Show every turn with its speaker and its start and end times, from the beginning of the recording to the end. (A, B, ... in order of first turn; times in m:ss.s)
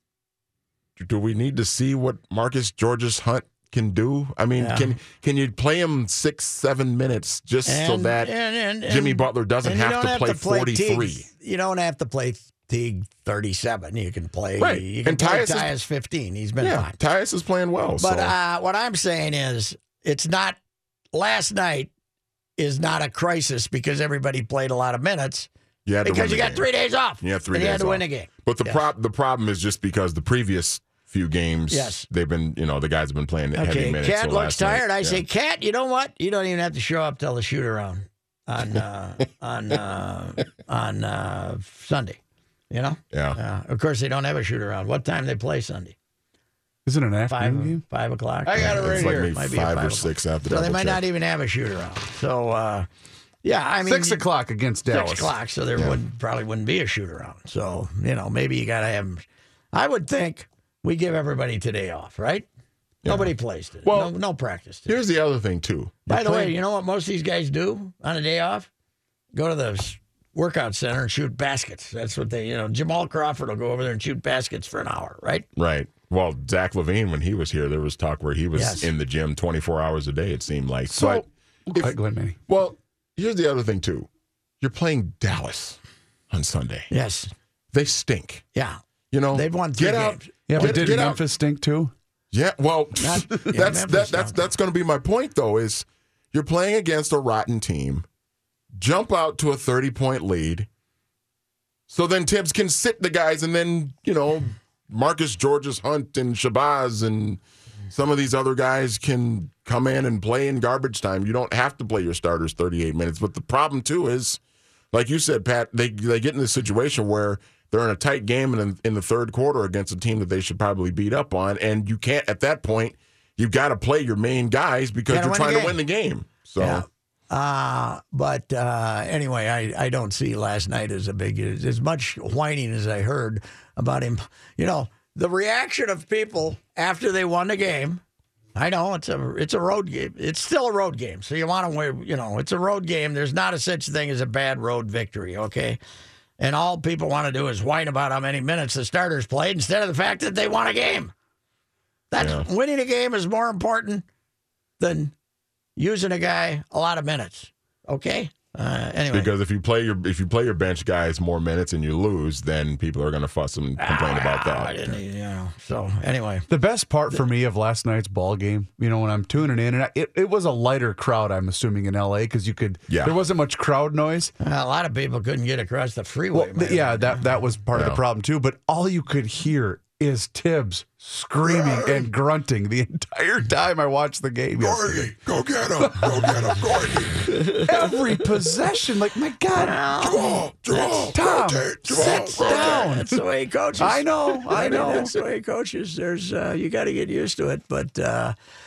0:01.0-0:08.3 A
0:04.6-0:05.0 B
0:07.6-0:16.9 B
0:08.9-0:11.2 A
0:14.6-0:15.7 A
0:16.6-0:18.3 A
0:18.0-0:20.6 B
0:21.1-0:21.9 B
0:22.6-0:25.5 B
0:25.8-0:26.6 A
0:26.0-0:28.8 B
0:27.2-0:35.2 A
0:31.7-0:32.0 B
0:33.6-0:42.2 B
0:42.7-0:46.0 B
0:43.1-0:43.4 A
0:46.8-0:47.8 C
0:47.3-0:52.9 B
0:48.4-0:49.3 C
0:48.6-0:51.0 A
0:53.4-0:54.2 B
0:53.8-0:55.3 C
0:54.9-1:02.5 B
1:03.0-1:03.3 A
1:03.1-1:04.9 B
1:03.8-1:04.1 A
1:04.9-1:06.5 A
1:06.1-1:08.7 B
1:09.3-1:15.5 B
1:15.6-1:21.2 A
1:18.5-1:18.9 B
1:20.9-1:22.4 C
1:21.8-1:24.1 A
1:24.6-1:25.8 A
1:26.3-1:26.9 A
1:26.9-1:27.3 B
1:27.7-1:28.4 A
1:29.1-1:31.2 A
1:29.3-1:31.0 B
1:30.5-1:31.9 C
1:32.3-1:38.0 A
1:33.0-1:34.5 B
1:38.7-1:40.7 A
1:41.9-1:54.4 A
1:54.9-2:06.8 A
2:05.1-2:05.8 B
2:06.6-2:18.0 B
2:18.5-2:25.8 B
2:26.4-2:31.1 B
2:32.1-2:34.0 B
2:32.2-2:32.4 A
2:34.8-2:35.1 B
2:35.8-2:39.3 B
2:39.1-2:44.7 A
2:43.8-2:46.5 B
2:46.5-2:54.3 C
2:52.9-2:53.2 A
2:54.4-2:57.4 B
2:56.3-3:05.1 C
2:57.7-2:58.0 A
3:01.5-3:02.0 A
3:04.6-3:07.3 A
3:06.0-3:06.3 C
3:07.3-3:07.7 B
3:07.6-3:09.8 C
3:09.5-3:11.1 B
3:10.0-3:12.9 A
3:11.1-3:13.2 C
3:11.9-3:18.3 B
3:13.8-3:15.1 C